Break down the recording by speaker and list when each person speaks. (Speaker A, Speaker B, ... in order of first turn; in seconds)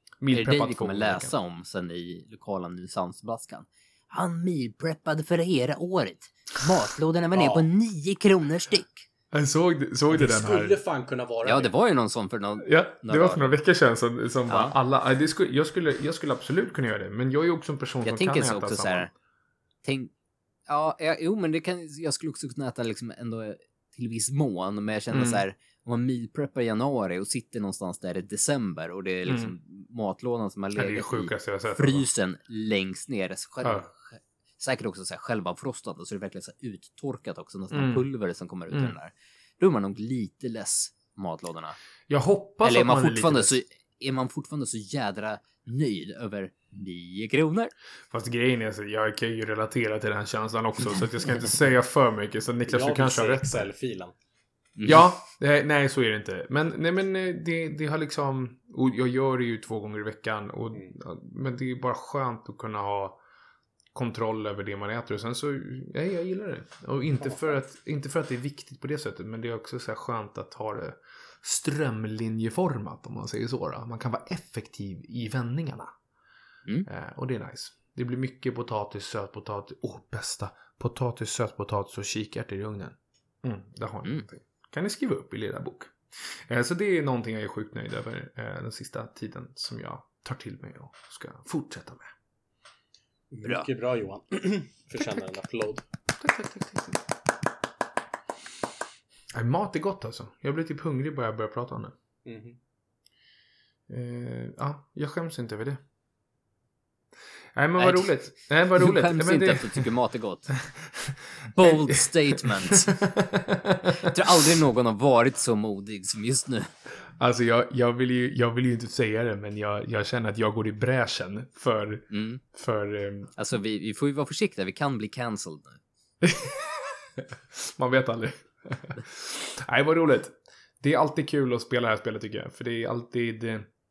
Speaker A: 0.2-1.3, 9.3-10.8, 12.6-19.1, 25.1-25.4, 29.3-29.6, 30.8-32.1, 33.6-33.9, 37.7-38.1, 38.7-39.0, 42.1-43.6, 48.1-53.7, 54.9-63.2, 63.9-75.9, 76.9-85.9, 86.5-92.1, 96.2-97.0, 99.3-102.0, 103.9-105.8, 107.5-109.9, 110.6-114.2, 117.2-123.3, 126.2-133.7
Speaker B: 0.3-9.1, 11.4-13.5, 14.5-14.8, 18.0-19.1, 19.8-20.1, 20.7-41.8, 42.6-47.7, 54.8-55.1, 107.8-108.2, 108.7-110.5, 111.5-112.9, 114.0-116.7, 122.1-122.4, 123.3-125.8
Speaker C: 7.3-7.7, 10.1-11.7, 52.7-54.1, 67.3-67.5, 93.3-95.9, 102.2-102.6